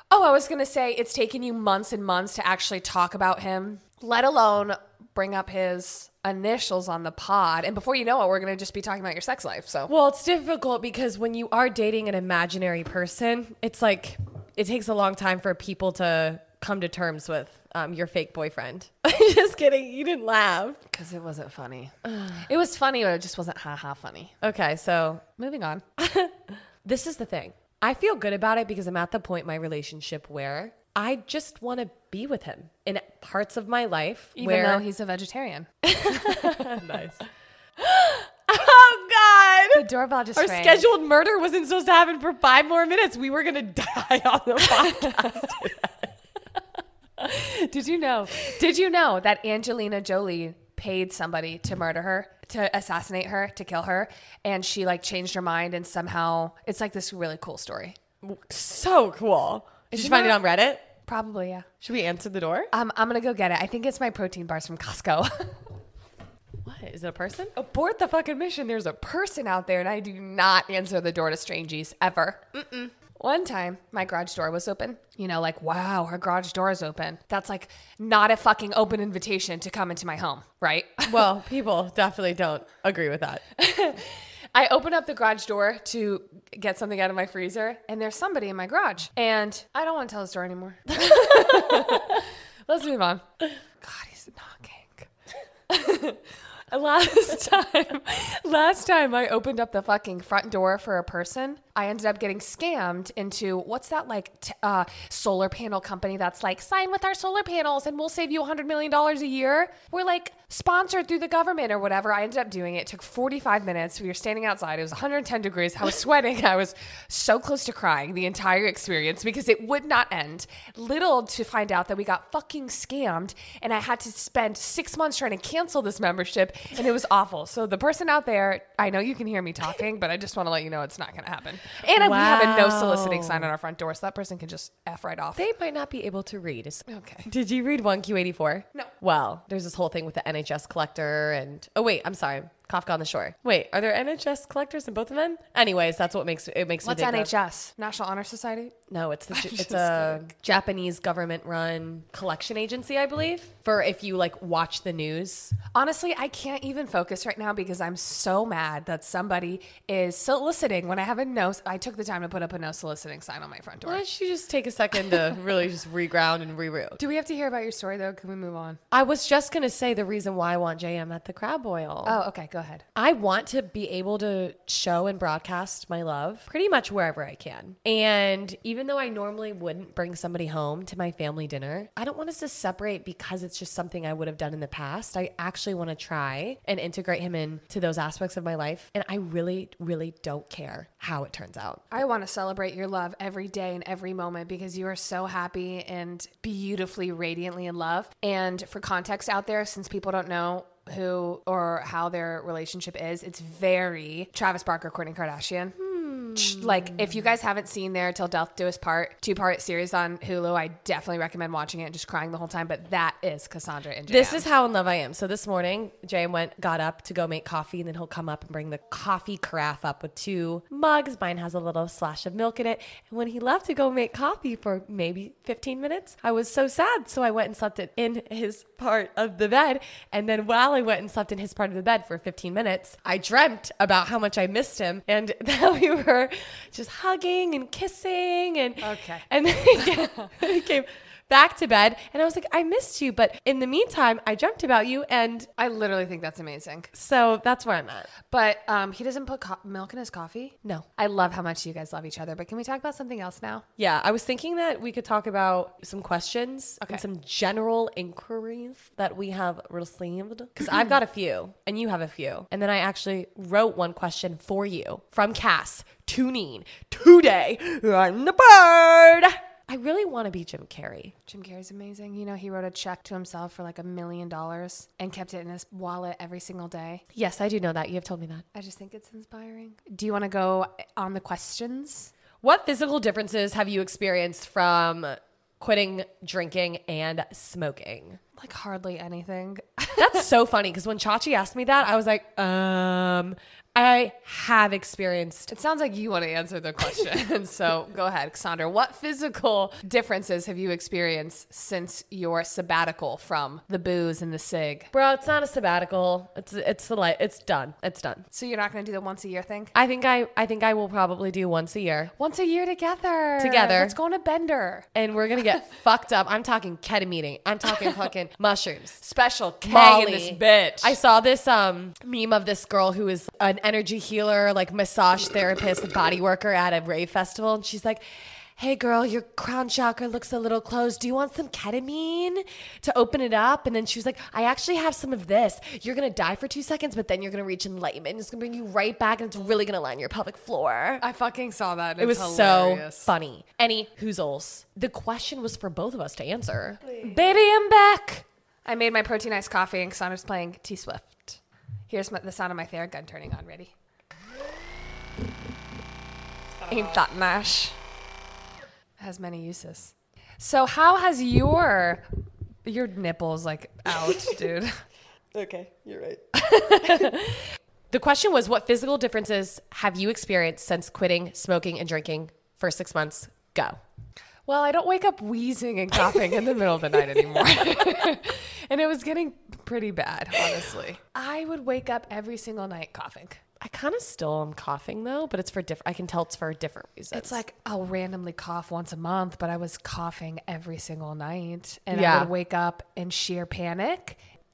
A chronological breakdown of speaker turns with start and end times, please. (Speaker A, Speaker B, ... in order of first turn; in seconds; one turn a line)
Speaker A: 0.1-9.9
Speaker B: 9.9-20.8
Speaker A: 20.9-24.4
Speaker B: 22.0-22.5
Speaker B: 24.4-25.2
Speaker A: 25.4-25.9
Speaker B: 26.0-34.9
Speaker A: 34.4-36.8
Speaker B: 35.9-37.2
Speaker B: 37.8-39.9
Speaker A: 39.7-40.9
Speaker B: 40.4-46.1
Speaker A: 44.9-45.4
Speaker A: 47.2-58.0
Speaker B: 58.2-60.9
Speaker A: 59.9-60.4
Speaker A: 61.0-61.7
Speaker B: 61.8-62.7
Speaker A: 62.7-65.6
Speaker B: 66.6-67.5
Speaker A: 67.5-72.5
Speaker B: 72.5-72.9
Speaker A: 73.2-81.2
Speaker B: 81.1-83.5
Speaker A: 83.6-93.3
Speaker B: 91.0-92.2
Speaker A: 93.8-95.1
Speaker A: 95.7-135.5
Speaker B: 131.9-133.5
Speaker B: 135.4-147.3
Speaker A: 136.9-137.3
Speaker A: 146.8-148.8
Speaker B: 148.9-155.6
Speaker A: 149.3-150.2
Speaker A: 155.7-164.0
Speaker B: 163.9-167.0
Speaker A: 167.0-168.8
Speaker B: 168.9-172.2
Speaker A: 172.1-172.8
Speaker B: 173.0-191.9
Speaker A: 191.9-205.8
Speaker B: 205.8-207.2
Speaker A: 206.3-214.5
Speaker B: 214.1-245.5
Speaker A: 238.8-240.3
Speaker A: 245.6-246.9
Speaker B: 246.9-248.1
Speaker A: 248.3-253.7
Speaker B: 253.8-271.1
Speaker A: 271.3-277.0
Speaker B: 277.1-278.5
Speaker A: 278.5-282.1
Speaker B: 282.4-288.2
Speaker A: 288.4-290.3
Speaker B: 290.0-295.5
Speaker A: 295.5-304.9
Speaker B: 304.9-308.2
Speaker A: 308.3-309.7
Speaker B: 309.7-312.1
Speaker A: 312.2-314.9
Speaker B: 313.4-314.0
Speaker B: 314.9-319.0
Speaker A: 319.0-321.0
Speaker B: 319.6-328.0
Speaker B: 328.6-341.0
Speaker A: 341.0-343.1
Speaker B: 342.0-347.4
Speaker A: 347.0-353.7
Speaker B: 356.6-357.0
Speaker A: 356.7-357.8
Speaker A: 359.0-362.0
Speaker A: 362.6-364.8
Speaker B: 364.0-364.3
Speaker B: 365.3-366.2
Speaker A: 366.3-367.5
Speaker B: 366.8-367.1
Speaker B: 367.9-373.8
Speaker A: 374.5-383.4
Speaker B: 383.6-387.4
Speaker A: 387.1-394.2
Speaker B: 391.9-392.3